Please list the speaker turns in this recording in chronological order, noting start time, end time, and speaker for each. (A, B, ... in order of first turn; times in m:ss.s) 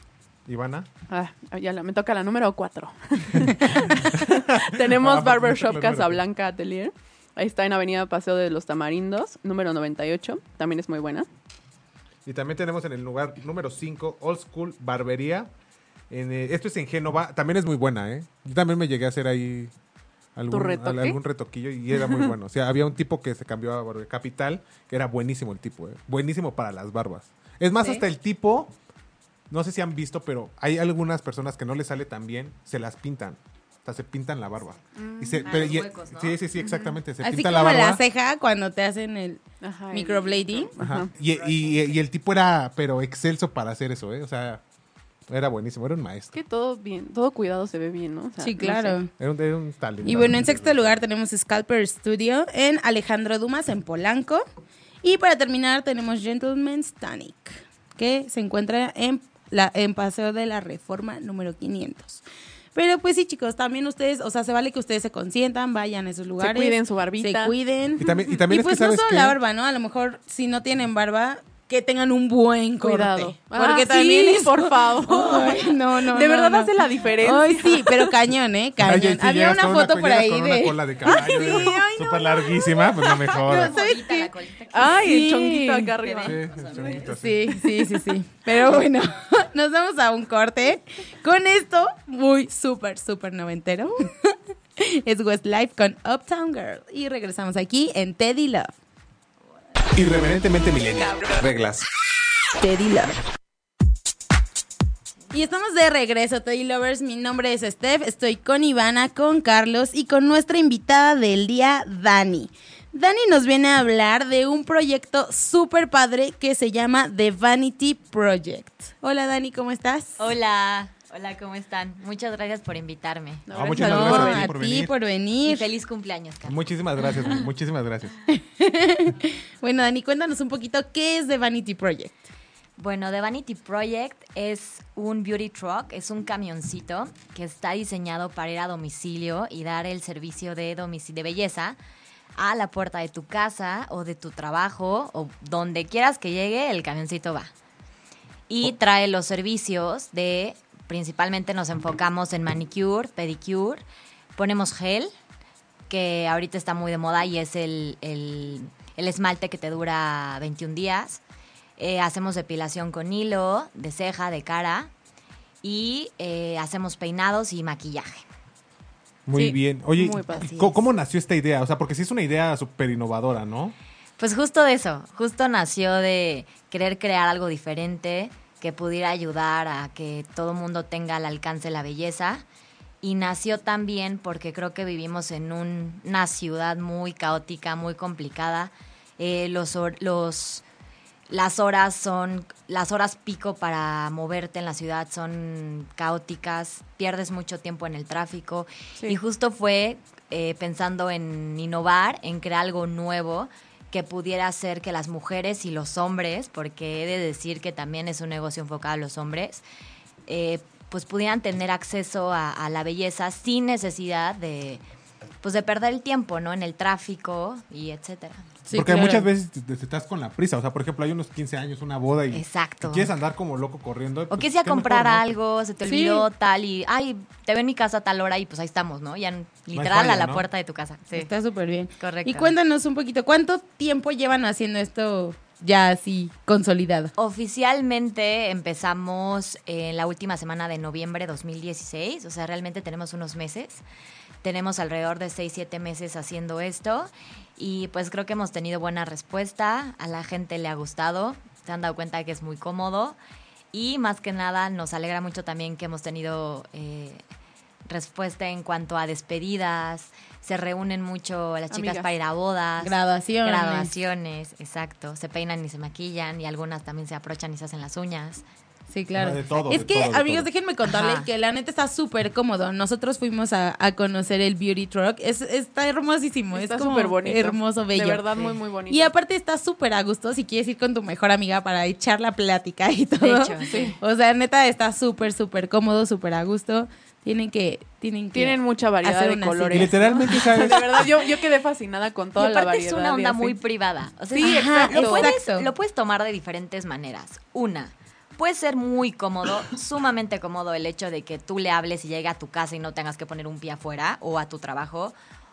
0:00.4-0:00.9 A
0:01.1-0:11.3 B
0:04.1-0:06.2 A
0:12.2-0:15.5 A
0:16.1-0:19.7 A
0:20.4-0:28.7 A
0:20.5-0:21.2 B
0:29.5-0:38.0 A
0:35.0-0:35.7 B
0:35.4-0:36.4 C
0:36.6-0:37.0 B
0:37.2-0:40.7 D
0:39.6-0:41.1 B
0:40.8-0:44.6 A
0:41.2-0:41.9 C
0:45.3-0:46.3 A
0:46.3-0:49.0 B
0:48.4-0:49.1 D
0:49.2-0:51.0 A
0:50.0-0:54.4 D
0:55.0-1:02.2 D
1:02.7-1:26.1 D
1:06.4-1:07.5 B
1:08.0-1:09.4 A
1:12.8-1:18.1 B
1:18.8-1:23.7 A
1:21.2-1:21.7 B
1:23.3-1:25.3 C
1:24.7-1:26.4 B
1:26.0-1:27.1 C
1:26.2-1:27.6 A
1:27.0-1:38.8 D
1:39.9-1:41.8 A
1:42.6-1:43.2 D
1:45.3-2:00.2 D
2:00.2-2:03.5 C
2:03.5-2:04.5 B
2:03.5-2:04.9 A
2:03.7-2:05.6 D
2:05.4-2:07.4 C
2:06.4-2:08.1 A
2:08.3-2:12.3 D
2:12.8-2:21.8 C
2:22.4-2:27.5 C
2:28.5-2:33.8 C
2:34.4-2:35.1 C
2:35.9-2:41.2 C
2:41.8-2:44.9 C
2:45.6-2:48.2 C
2:49.3-2:53.7 A
2:49.3-2:50.5 B
2:50.4-2:50.7 C
2:54.2-3:02.4 C
3:03.0-3:10.6 C
3:11.3-3:29.6 C
3:30.3-3:34.8 C
3:35.4-3:38.4 C
3:38.6-3:39.3 D
3:38.7-3:45.3 A
3:42.3-3:43.1 C
3:44.3-3:51.3 C
3:45.8-3:46.2 D
3:49.7-3:50.4 A
3:51.1-3:57.1 D
3:52.0-3:52.5 C
3:57.2-4:03.8 C
4:04.4-4:13.2 C
4:13.7-4:17.2 C
4:17.9-4:28.4 C
4:21.7-4:22.1 B
4:22.8-4:23.9 D
4:28.9-4:50.1 D
4:29.1-4:30.5 A
4:30.8-4:31.3 C
4:36.5-4:39.1 B
4:43.2-4:43.9 C
4:43.7-4:44.0 B
4:48.3-4:53.6 B
4:49.7-4:51.1 A
4:52.4-5:05.1 C
4:54.4-4:55.7 D
4:54.4-4:55.3 B